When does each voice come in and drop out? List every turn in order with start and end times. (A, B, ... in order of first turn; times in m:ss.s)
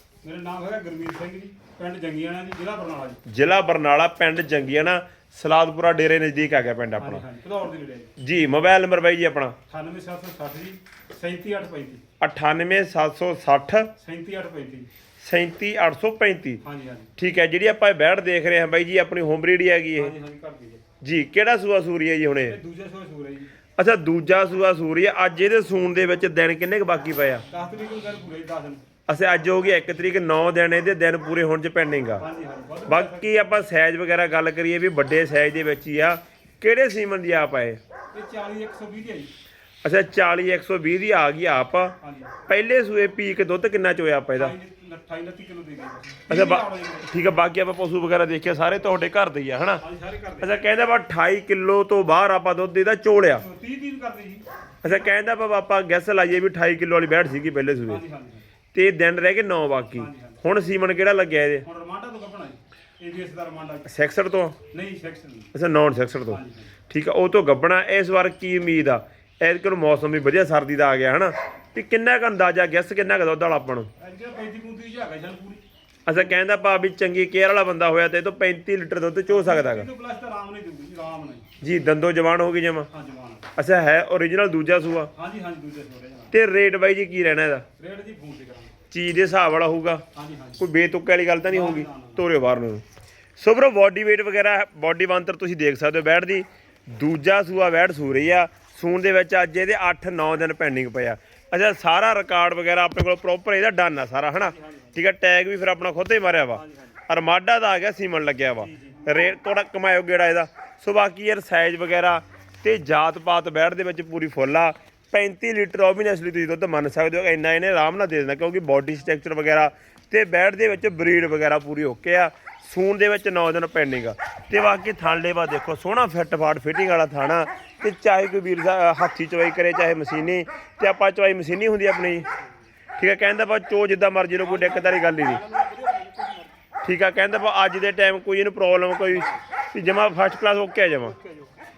0:00.2-0:03.2 A
0:03.3-0:07.2 B
0:07.0-0:08.1 A
0:08.2-0:09.6 B
0:09.7-0:12.0 A
0:12.2-0:13.9 B
0:14.0-0:14.9 A
0:15.2-0:16.6 B
0:16.6-0:17.1 A
0:17.2-0:20.1 B
0:20.0-0:20.8 A
0:21.0-0:22.6 B
0:22.5-0:23.5 A
0:23.8-0:27.4 B
0:27.5-0:28.8 A
0:29.1-0:32.2 B
0:32.2-0:33.5 A
0:32.9-0:37.8 B
0:38.1-0:39.3 A
0:39.8-0:44.5 B
0:42.0-0:42.3 A
0:44.4-0:47.2 A
0:46.3-0:49.8 B
0:49.8-0:50.6 A
0:50.4-0:53.4 B
0:53.4-0:55.0 A
0:54.8-0:58.0 B
0:57.9-0:58.4 A
0:58.7-1:01.7 B
1:00.0-1:00.4 A
1:01.6-1:03.9 A
1:03.9-1:04.6 B
1:04.7-1:05.5 A
1:05.5-1:13.9 B
1:06.3-1:06.7 A
1:14.0-1:15.6 A
1:16.1-1:19.9 B
1:19.3-1:21.5 A
1:21.6-1:22.9 B
1:22.9-1:23.5 A
1:23.6-1:25.1 B
1:25.1-1:26.3 A
1:26.3-1:27.7 B
1:27.8-1:28.7 A
1:28.9-1:30.0 B
1:30.1-1:30.6 A
1:30.6-1:32.8 B
1:31.5-1:32.2 A
1:33.4-2:12.3 B
1:44.4-1:45.0 A
1:46.5-1:47.0 A
1:48.6-1:49.2 A
2:13.0-2:15.4 B
2:14.4-2:16.6 A
2:16.8-2:21.2 B
2:19.1-2:19.4 A
2:21.0-2:21.6 A